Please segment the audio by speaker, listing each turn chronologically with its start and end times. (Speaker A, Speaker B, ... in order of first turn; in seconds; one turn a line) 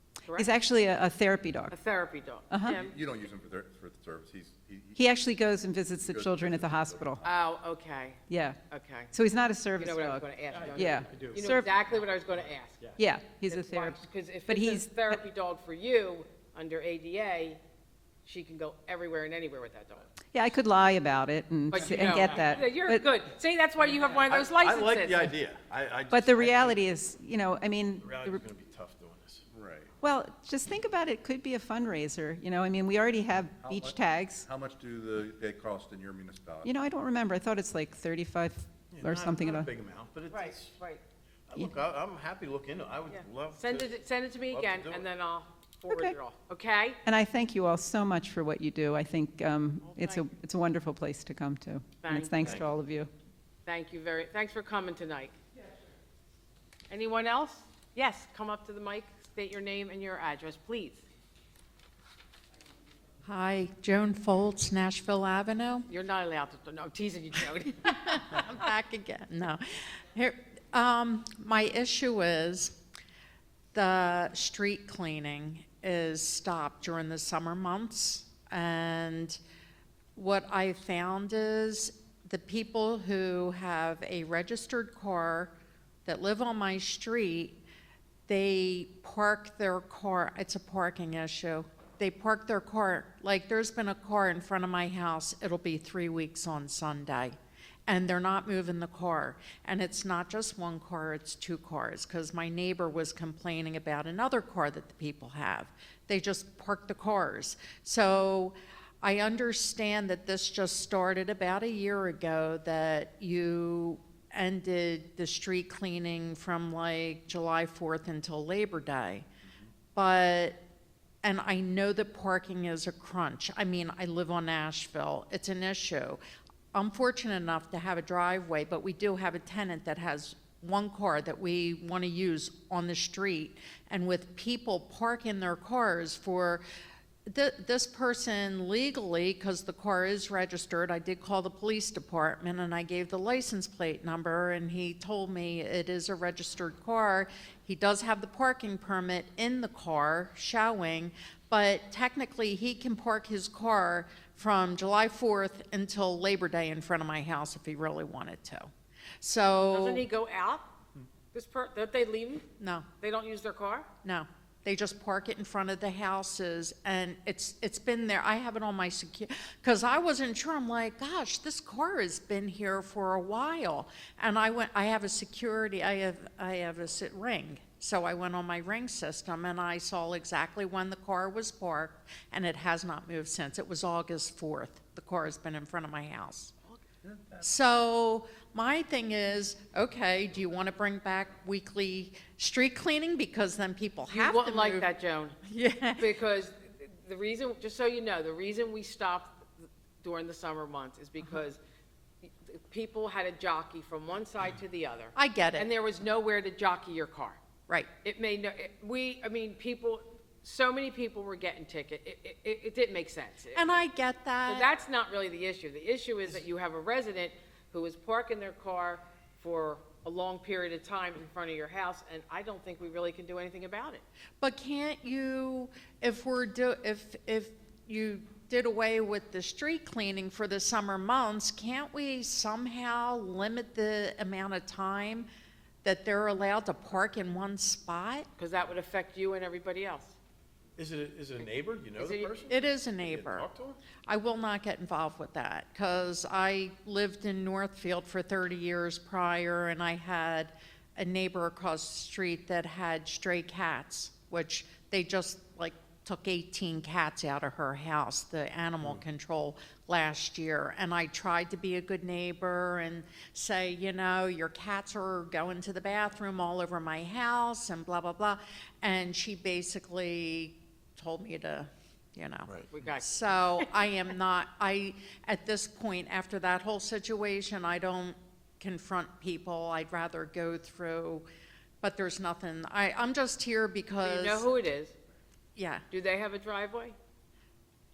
Speaker A: 0.2-0.5
Speaker B: 0.3-1.7
Speaker A: 1.7-2.9
Speaker B: 2.5-2.8
Speaker C: 2.7-5.2
Speaker B: 5.0-7.2
Speaker C: 6.0-7.1
Speaker A: 7.2-9.1
Speaker B: 8.3-8.6
Speaker B: 9.1-11.7
Speaker A: 9.8-12.8
Speaker D: 10.5-12.0
Speaker B: 13.0-15.1
Speaker A: 13.5-17.6
Speaker A: 18.2-20.1
Speaker B: 20.3-23.1
Speaker A: 21.7-25.3
Speaker D: 21.8-22.5
Speaker D: 23.8-26.8
Speaker B: 26.1-28.4
Speaker D: 28.0-29.5
Speaker B: 30.0-34.4
Speaker C: 33.7-34.0
Speaker C: 34.5-36.7
Speaker B: 36.6-39.7
Speaker D: 38.9-40.8
Speaker A: 40.3-41.0
Speaker D: 41.5-44.0
Speaker A: 43.1-47.0
Speaker D: 44.5-45.1
Speaker B: 45.9-46.1
Speaker B: 47.1-53.1
Speaker A: 49.8-50.3
Speaker A: 52.0-52.6
Speaker D: 52.4-52.7
Speaker A: 53.7-55.4
Speaker A: 56.9-61.1
Speaker E: 63.2-65.9
Speaker A: 65.9-68.5
Speaker E: 67.8-72.8
Speaker E: 73.7-79.4
Speaker E: 80.2-85.5
Speaker E: 86.1-87.6
Speaker E: 88.3-119.3
Speaker E: 120.0-120.6
Speaker E: 121.2-126.2
Speaker E: 126.7-136.6
Speaker E: 137.3-158.7
Speaker E: 159.2-160.1
Speaker A: 159.7-160.7
Speaker A: 161.3-162.5
Speaker E: 162.6-162.9
Speaker A: 163.0-163.9
Speaker E: 164.0-186.5
Speaker E: 187.4-194.9
Speaker A: 194.1-195.4
Speaker E: 195.5-196.1
Speaker A: 196.0-201.6
Speaker A: 202.2-207.4
Speaker E: 205.2-205.7
Speaker A: 208.0-213.8
Speaker E: 213.5-214.7
Speaker A: 214.5-224.0
Speaker E: 224.4-235.3
Speaker E: 235.8-238.3
Speaker A: 238.4-240.2
Speaker D: 240.8-243.8
Speaker A: 242.0-242.3
Speaker E: 242.5-243.5
Speaker E: 244.1-281.3
Speaker A: 272.7-273.7
Speaker E: 281.8-284.5
Speaker A: 284.0-285.0
Speaker E: 285.6-285.8
Speaker A: 285.9-287.0